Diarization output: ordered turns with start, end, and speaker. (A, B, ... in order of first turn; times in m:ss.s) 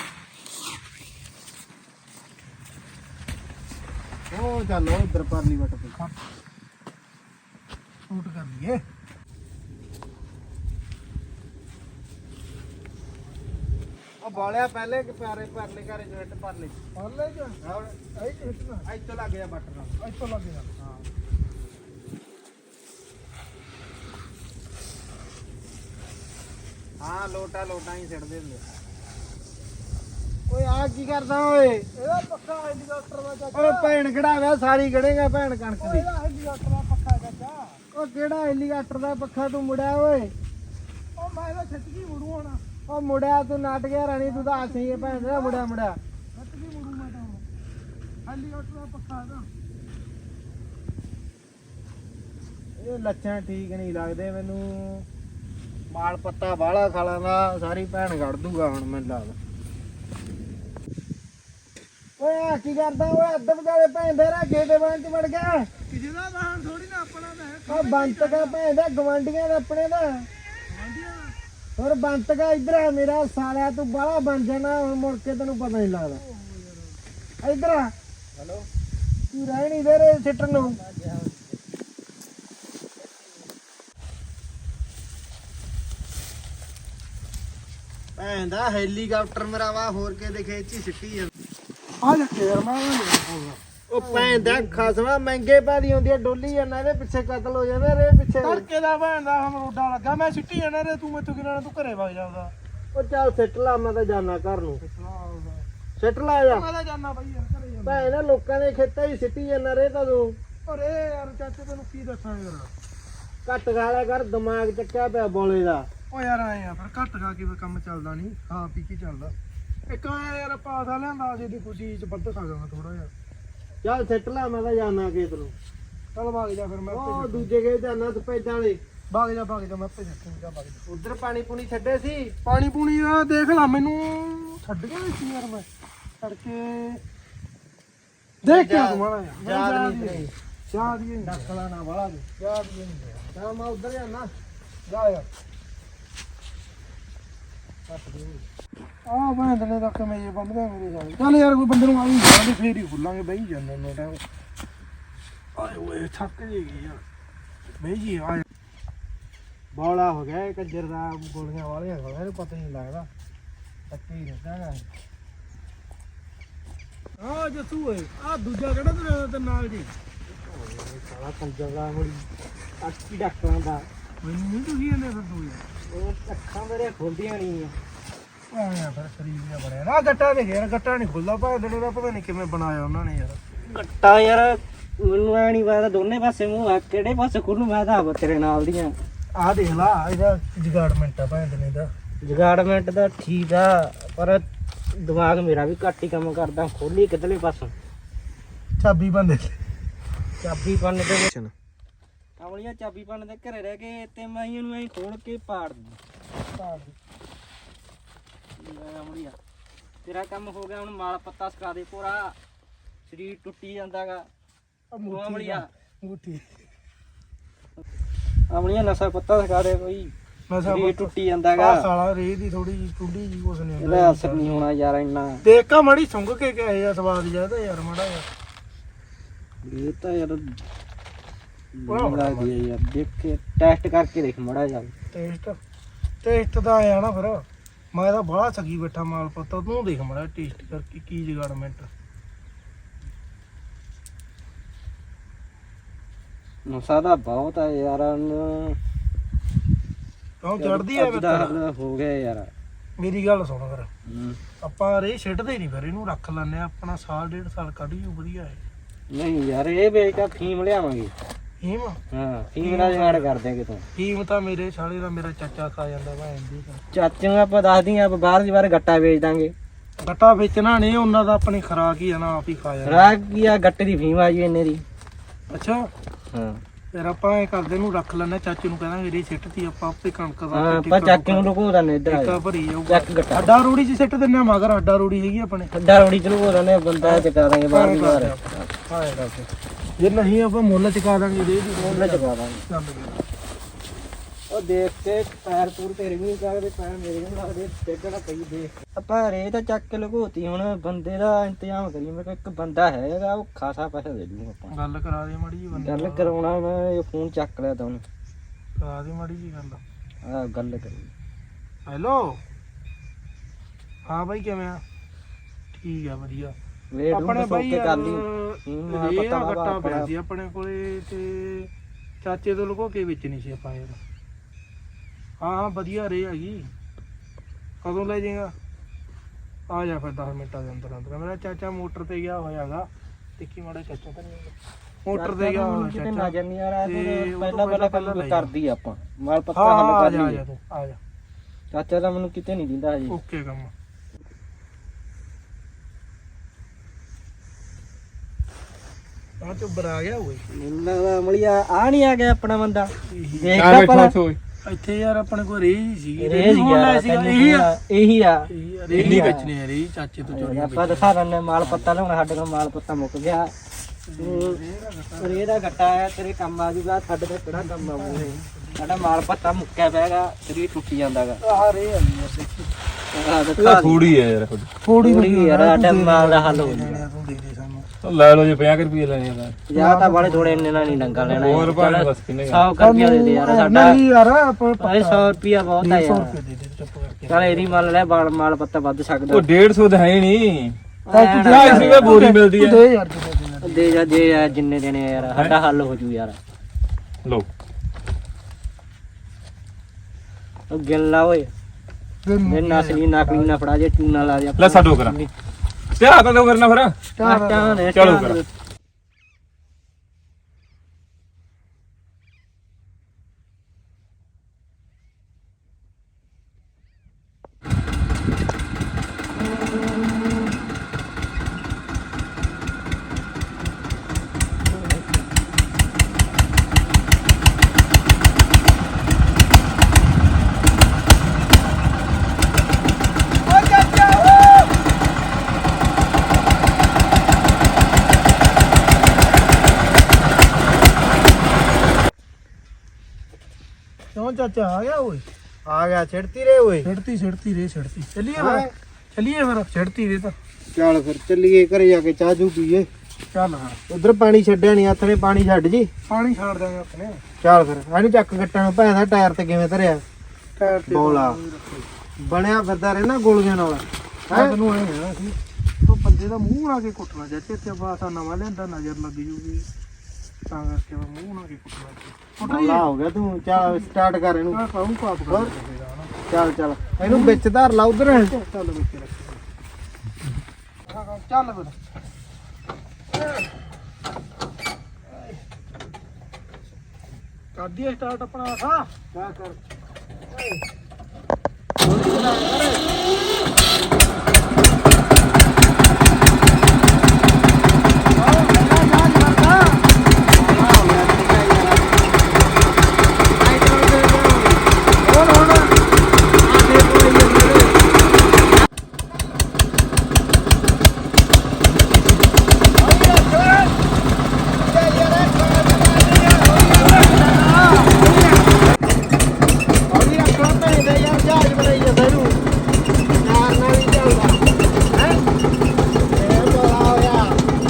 0:04.3-0:06.0 A
0:08.1-0:08.8 B
0:14.2-0:16.8 A
0:16.9-0:17.6 B
0:17.6-0:18.0 A
0:18.1-0:18.8 B
0:18.8-0:20.0 A
0:20.0-0:20.7 B
0:20.8-0:21.0 A
0:27.0-0:28.6 A
0:30.5-0:31.9 A
0:31.9-0:33.9 B
0:33.5-0:36.1 A
0:35.8-0:37.8 B
0:37.9-0:40.3 A
0:41.2-0:42.6 B
0:42.9-0:46.0 A
0:44.2-0:45.6 B
0:46.3-0:47.4 B
0:48.3-0:49.5 B
0:52.8-0:55.0 A
0:55.9-0:59.4 A
1:02.2-1:05.7 A
1:05.9-1:08.6 B
1:07.7-1:10.3 A
1:10.7-1:11.3 B
1:11.8-1:16.2 A
1:16.2-1:16.9 B
1:17.4-1:17.9 A
1:18.4-1:18.7 C
1:19.3-1:20.8 A
1:20.6-1:21.6 C
1:28.2-1:31.3 A
1:32.0-1:34.9 B
1:33.9-1:38.6 A
1:38.4-1:42.5 B
1:42.9-1:44.8 A
1:44.8-1:45.6 B
1:46.0-1:46.7 A
1:46.5-1:48.1 B
1:47.8-1:50.4 A
1:50.6-1:52.7 B
1:53.4-1:55.9 A
1:56.1-1:59.3 B
1:59.9-2:03.1 B
2:03.8-2:05.5 A
2:06.1-2:07.5 B
2:06.9-2:08.8 A
2:09.1-2:10.8 B
2:10.9-2:12.3 A
2:12.4-2:15.7 B
2:16.2-2:17.0 B
2:18.4-2:20.3 A
2:18.4-2:21.6 B
2:21.2-2:22.4 A
2:22.4-2:23.2 B
2:23.3-2:24.3 A
2:24.9-2:25.3 B
2:27.9-2:28.4 A
2:29.0-2:34.2 B
2:35.6-2:37.0 B
2:37.8-2:38.4 B
2:39.7-2:43.1 A
2:43.9-2:44.9 A
2:47.2-2:49.9 B
2:50.4-2:52.1 C
2:50.8-2:52.2 A
2:52.8-2:53.9 C
2:54.2-2:55.6 B
2:55.9-2:57.7 C
2:58.5-3:03.4 B
3:03.6-3:08.9 C
3:09.3-3:11.9 B
3:12.2-3:17.7 C
3:18.8-3:19.6 B
3:20.4-3:21.3 C
3:22.4-3:26.0 C
3:26.5-3:26.9 B
3:28.6-3:29.4 C
3:30.0-3:32.4 C
3:33.1-3:34.3 C
3:34.9-3:36.6 B
3:35.0-3:35.7 C
3:38.5-3:40.1 C
3:40.5-3:44.5 B
3:40.6-3:41.9 C
3:43.8-3:45.4 C
3:45.4-3:48.3 B
3:49.6-3:50.6 C
3:51.8-3:54.9 C
3:51.9-3:52.5 B
3:55.1-3:55.6 B
3:56.2-4:01.9 B
4:06.6-4:08.8 C
4:10.4-4:11.6 B
4:10.6-4:12.5 C
4:13.0-4:13.9 B
4:14.1-4:14.4 C
4:14.6-4:18.6 B
4:19.1-4:21.1 C
4:21.6-4:22.0 B
4:22.1-4:23.8 C
4:22.6-4:23.3 B
4:24.0-4:26.8 B
4:26.9-4:29.5 C
4:30.0-4:33.1 B
4:32.8-4:34.8 C
4:35.5-4:35.9 B
4:36.3-4:36.6 C
4:36.9-4:41.5 B
4:40.5-4:43.5 C
4:42.1-4:45.7 B
4:45.7-4:49.5 C
4:47.0-4:49.3 B
4:50.0-4:53.2 B
4:51.8-4:52.6 C
4:54.5-5:04.7 C
5:04.7-5:06.3 B
5:05.7-5:08.0 C
5:08.8-5:09.8 B
5:10.2-5:11.1 C
5:11.9-5:12.4 B
5:14.0-5:14.8 B
5:15.7-5:16.6 B
5:16.9-5:20.1 C
5:17.1-5:21.7 B
5:22.2-5:24.0 B
5:25.4-5:26.7 B
5:27.8-5:28.5 B
5:29.7-5:34.5 B
5:35.0-5:38.5 B
5:35.1-5:40.4 C
5:39.5-5:41.0 B
5:41.7-5:43.1 C
5:43.1-5:43.7 B
5:49.4-5:50.4 B
5:50.5-5:54.2 C
5:53.1-5:53.5 B
5:53.5-5:54.4 D
5:54.6-5:57.7 B
5:56.2-5:59.4 C
5:58.5-6:01.8 B
5:58.9-5:59.4 D
6:00.3-6:03.5 C
6:04.1-6:05.8 B
6:04.2-6:04.6 C
6:05.2-6:11.4 C
6:07.5-6:09.2 B
6:11.4-6:12.7 B
6:13.1-6:14.1 C
6:13.6-6:14.7 D
6:14.8-6:17.9 B
6:15.0-6:17.0 C
6:18.0-6:19.6 D
6:19.7-6:24.0 C
6:19.7-6:21.7 B
6:21.3-6:22.7 D
6:22.8-6:28.2 B
6:24.8-6:26.4 C
6:27.3-6:29.5 C
6:29.3-6:30.8 D
6:31.0-6:32.3 C
6:31.1-6:34.6 B
6:31.4-6:32.8 D
6:33.6-6:36.4 C
6:40.7-6:41.5 C
6:42.2-6:43.5 B
6:42.4-6:45.3 C
6:44.6-6:45.2 D
6:46.0-6:47.0 D
6:47.2-6:47.8 B
6:47.2-6:48.5 C
6:47.9-6:48.4 D
7:13.5-7:14.7 B
7:24.1-7:25.2 B
7:25.6-7:26.9 A
7:26.8-7:30.3 B
7:28.3-7:28.7 A
7:30.7-7:32.9 A
7:33.3-7:33.8 B
7:33.9-7:35.9 A
7:36.1-7:37.2 B
7:37.4-7:40.0 A
7:40.6-7:41.9 B
7:40.9-7:41.4 A
7:42.2-7:44.6 A
7:44.3-7:49.6 B
7:50.5-7:52.9 B
7:52.4-7:54.6 A
7:53.5-7:53.9 B
7:54.5-7:56.1 B
7:55.3-7:55.5 A
7:56.3-7:58.3 A
7:57.0-7:57.4 B
7:58.0-7:59.4 B
8:00.9-8:01.8 B
8:07.5-8:09.5 B
8:11.8-8:12.8 A
8:18.2-8:19.5 B
8:18.4-8:19.4 A
8:20.3-8:22.1 A
8:23.4-8:24.7 A
8:25.0-8:25.7 B
8:26.4-8:27.8 A
8:32.8-8:33.7 A
8:34.6-8:38.4 A
8:36.7-8:37.9 B
8:39.9-8:42.4 A
8:43.2-8:45.2 A
8:46.1-8:47.4 A